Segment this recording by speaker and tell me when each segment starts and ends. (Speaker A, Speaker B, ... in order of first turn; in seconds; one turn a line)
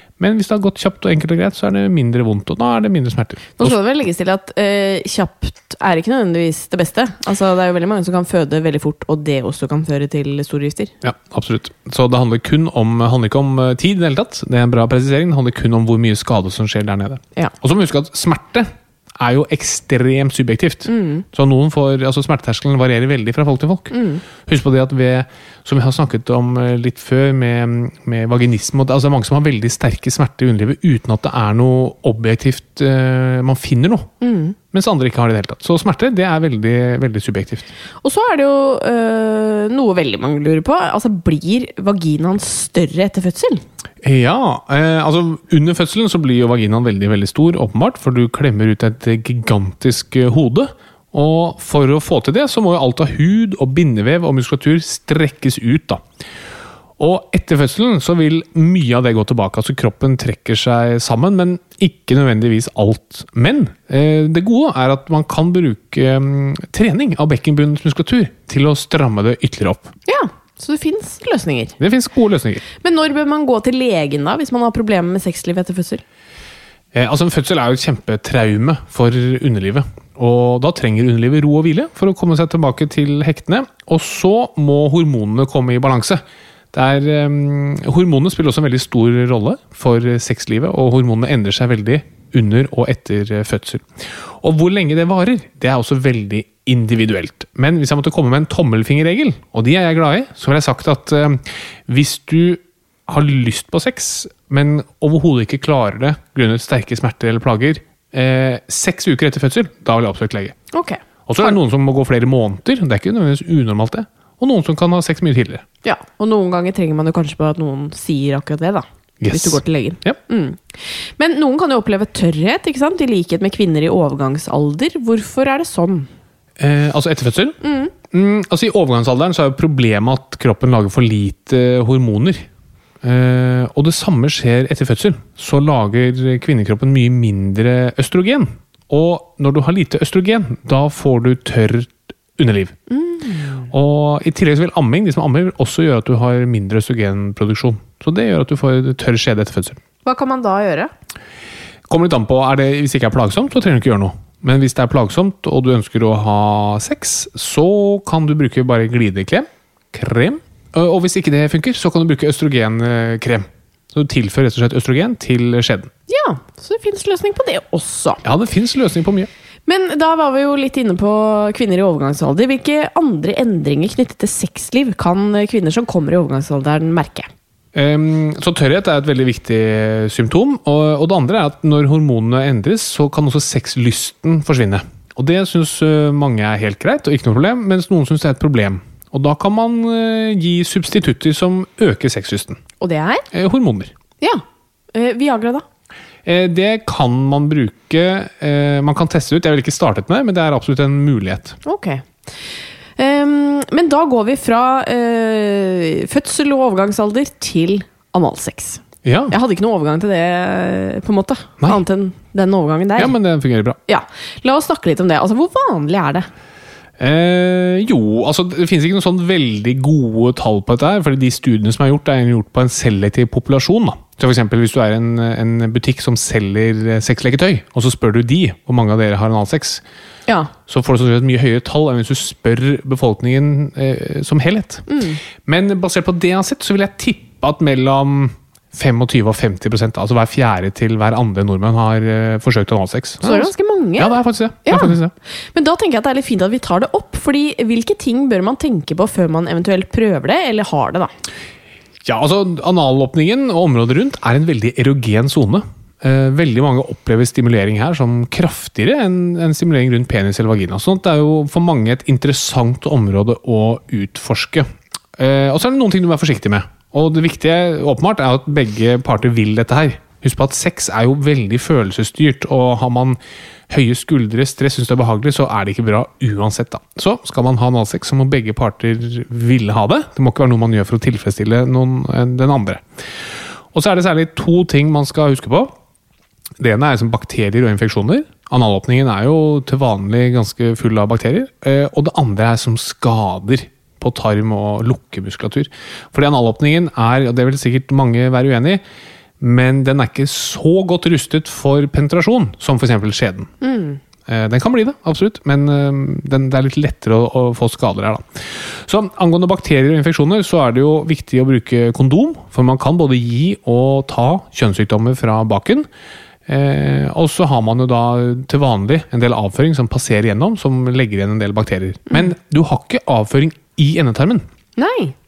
Speaker A: 0.2-3.8
Speaker B: 3.6-10.9
Speaker A: 11.0-34.1
Speaker B: 20.9-21.2
Speaker B: 23.9-24.2
Speaker B: 34.2-34.6
Speaker A: 34.7-37.7
Speaker B: 38.0-43.6
Speaker A: 44.0-56.0
Speaker A: 57.0-69.9
Speaker B: 70.1-71.7
Speaker A: 71.8-72.6
Speaker B: 72.8-76.0
Speaker A: 76.9-110.6
Speaker B: 110.7-111.5
Speaker A: 111.3-115.6
Speaker B: 115.8-126.1
Speaker A: 119.2-120.2
Speaker A: 126.6-127.6
Speaker B: 127.6-127.9
Speaker A: 128.1-132.5
Speaker A: 133.0-142.8
Speaker B: 142.9-143.7
Speaker A: 143.7-149.8
Speaker B: 150.1-150.9
Speaker A: 151.9-165.9
Speaker B: 166.1-168.2
Speaker A: 168.2-169.3
Speaker B: 169.7-177.3
Speaker A: 177.7-192.6
Speaker B: 192.8-193.2
Speaker A: 193.3-193.9
Speaker B: 194.9-195.6
Speaker A: 196.2-201.6
Speaker B: 201.6-202.0
Speaker B: 203.0-213.1
Speaker A: 209.0-209.3
Speaker A: 212.9-213.8
Speaker B: 213.9-216.3
Speaker A: 217.0-229.8
Speaker A: 230.7-234.9
Speaker B: 234.9-235.2
Speaker A: 235.4-245.1
Speaker B: 243.2-244.9
Speaker B: 245.5-251.1
Speaker A: 252.0-282.8
Speaker A: 283.7-285.7
Speaker A: 286.6-298.8
Speaker A: 299.4-303.5
Speaker B: 303.6-304.0
Speaker A: 304.3-315.9
Speaker A: 316.5-324.4
Speaker B: 324.8-325.1